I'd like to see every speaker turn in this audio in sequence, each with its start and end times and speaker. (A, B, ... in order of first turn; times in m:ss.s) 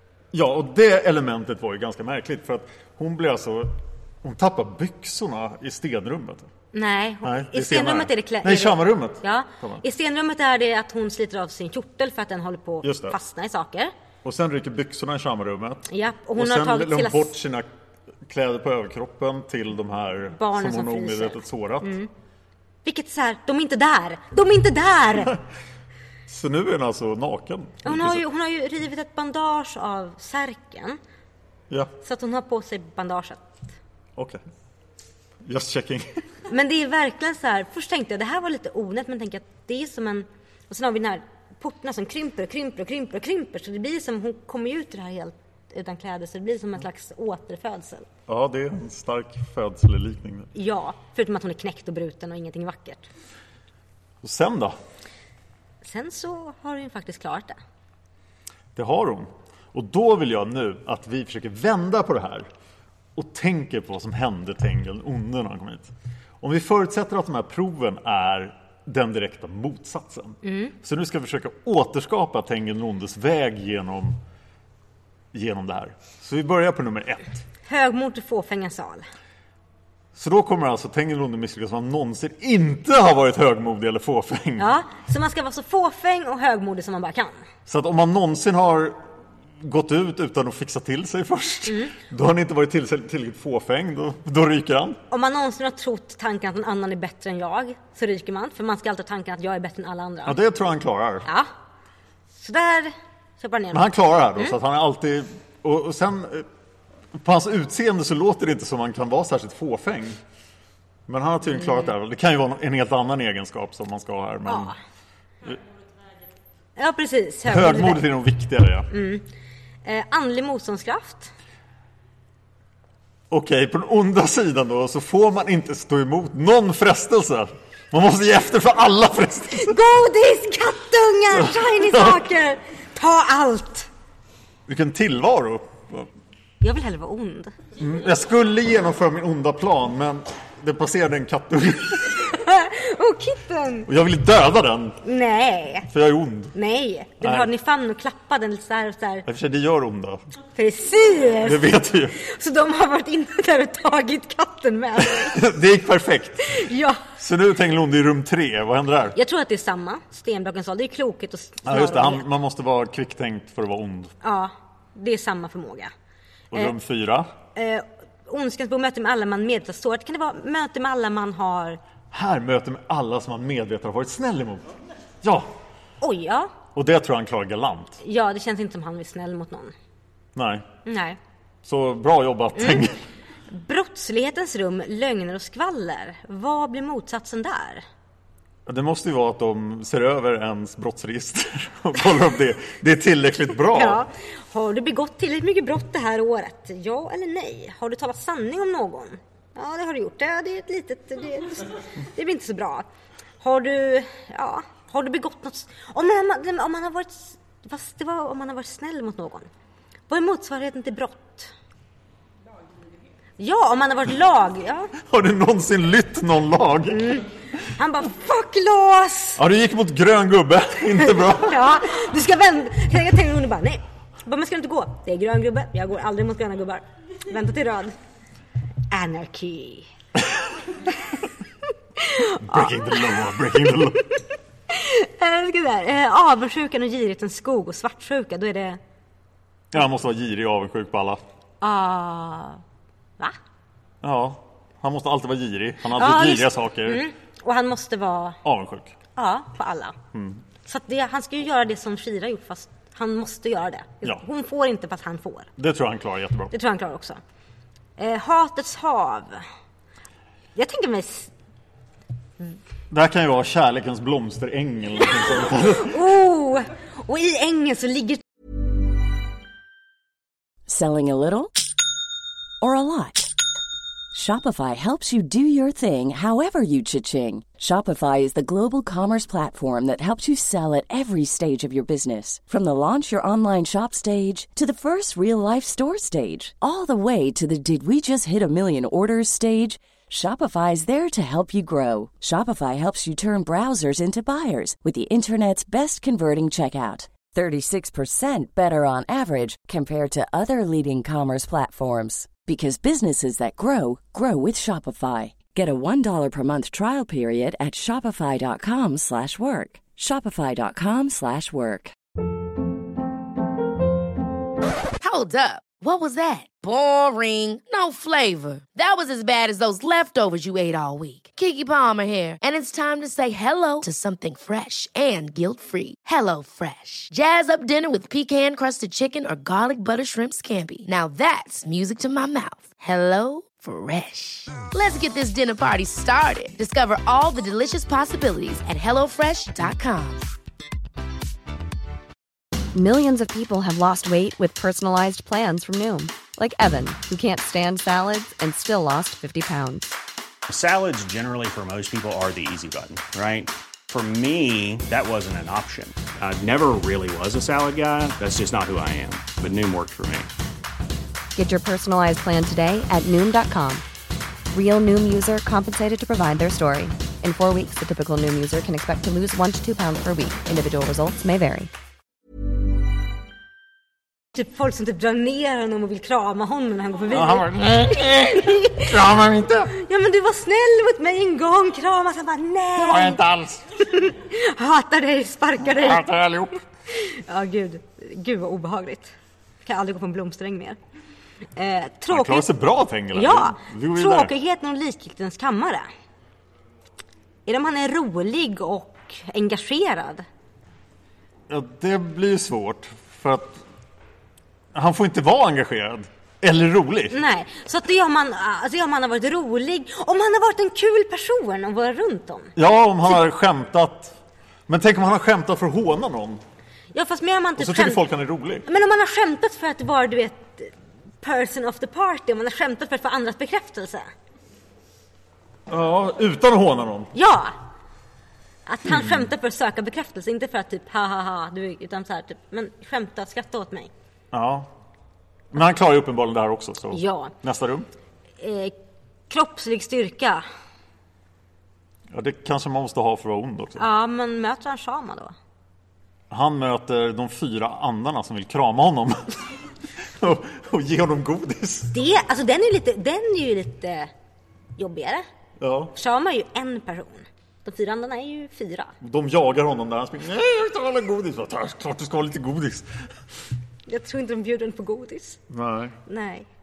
0:00.3-0:06.5 A
0:06.7-0:13.9 B
0:07.2-0:09.8 A
0:12.8-0:13.2 A
0:14.2-0:17.7 A
0:15.9-0:17.3 B
0:18.3-0:21.9 A
0:20.4-0:22.1 B
0:22.8-0:25.4 B
0:26.3-0:28.2 A
0:27.8-0:31.0 B
0:32.0-0:33.4 B
0:35.4-0:36.2 A
0:36.5-0:48.1 B
0:48.3-0:50.5 A
0:50.6-0:53.1 B
0:54.2-0:54.8 A
0:55.8-0:57.6 B
0:58.8-1:02.5 A
1:03.2-1:14.2 A
1:10.4-1:10.7 B
1:15.3-1:17.4 A
1:17.7-1:19.1 B
1:20.2-1:24.7 A
1:24.6-1:27.4 B
1:27.7-1:29.0 A
1:29.6-1:35.0 A
1:31.7-1:31.9 B
1:35.1-1:40.4 B
1:40.3-1:41.3 A
1:42.4-1:44.5 B
1:43.7-1:46.5 A
1:47.2-1:50.2 A
1:51.1-1:54.7 A
1:51.6-1:51.9 B
1:54.5-1:54.7 B
1:56.8-1:58.0 B
1:57.5-1:58.9 A
1:58.9-1:59.3 B
1:59.8-2:01.3 B
2:03.3-2:09.8 A
2:09.6-2:13.9 B
2:11.3-2:12.2 A
2:14.7-2:16.1 A
2:16.6-2:17.5 B
2:17.8-2:22.3 A
2:22.2-2:23.9 B
2:23.9-2:25.0 A
2:25.0-2:25.9 B
2:25.9-2:26.6 A
2:26.6-2:29.3 B
2:27.2-2:27.5 A
2:29.3-2:30.2 A
2:30.6-2:35.4 B
2:31.4-2:32.2 A
2:35.0-2:36.6 A
2:36.5-2:37.0 B
2:37.2-2:39.2 A
2:39.2-2:42.3 B
2:41.7-2:44.1 A
2:44.2-2:45.9 B
2:46.5-2:47.3 A
2:47.6-2:51.8 B
2:52.1-2:54.7 A
2:55.2-2:55.5 A
2:56.0-2:56.6 B
2:56.8-2:58.0 A
2:58.0-2:59.8 B
3:00.4-3:00.6 A
3:00.9-3:01.2 B
3:01.6-3:03.0 A
3:02.6-3:02.8 B
3:03.5-3:07.8 B
3:08.7-3:14.0 A
3:13.7-3:22.9 B
3:23.4-3:29.5 B
3:30.1-3:31.5 B
3:33.4-3:34.9 B
3:35.0-3:37.2 A
3:36.9-3:37.3 B
3:37.8-3:39.4 B
3:39.4-3:41.6 A
3:41.0-3:47.9 B
3:48.9-3:49.9 B
3:52.0-3:53.0 B
3:52.4-3:54.0 A
3:54.7-3:58.8 B
3:59.7-4:01.2 A
4:01.6-4:02.6 B
4:04.0-4:07.0 A
4:06.0-4:08.4 B
4:08.4-4:09.0 A
4:09.2-4:10.0 B
4:10.1-4:10.4 A
4:10.6-4:15.5 B
4:15.6-4:16.5 A
4:16.5-4:17.2 B
4:18.0-4:19.4 B
4:20.6-4:21.3 B
4:22.9-4:26.0 A
4:25.8-4:28.2 B
4:30.7-4:31.5 C
4:32.6-4:33.3 C
4:34.1-5:12.0 C
5:15.0-5:40.3 D
5:42.7-5:49.9 E
5:50.5-6:00.3 F
6:01.4-6:03.8 E
6:04.5-6:11.7 E
6:14.3-6:18.9 B
6:17.1-6:19.7 A
6:19.7-6:23.2 B
6:22.8-6:23.6 A
6:23.8-6:26.1 B
6:25.7-6:26.5 A
6:26.9-6:30.8 B
6:31.6-6:32.5 B
6:32.1-6:34.3 A
6:33.1-6:35.9 B
6:37.5-6:40.3 B
6:41.5-6:43.6 A
6:44.7-6:47.2 A
6:47.1-6:52.6 B
6:52.6-6:54.2 A
6:54.7-6:56.4 A
6:56.9-6:58.0 B
6:57.6-6:58.7 A
6:58.7-7:04.1 B
7:05.7-7:07.1 A
7:07.2-7:07.6 B
7:08.7-7:13.9 B
7:08.9-7:09.2 A
7:14.3-7:14.7 A
7:15.5-7:17.9 A
7:16.9-7:17.3 B
7:18.4-7:18.8 B
7:19.3-7:20.4 B
7:22.1-7:23.9 A
7:23.8-7:25.4 B
7:26.3-7:29.3 A
7:30.2-7:32.0 A
7:31.9-7:34.1 B
7:34.8-7:35.3 B
7:35.6-7:35.9 A
7:36.0-7:38.9 B
7:39.0-7:42.9 A
7:43.9-7:45.4 B
7:45.5-7:46.0 A
7:46.1-7:46.5 B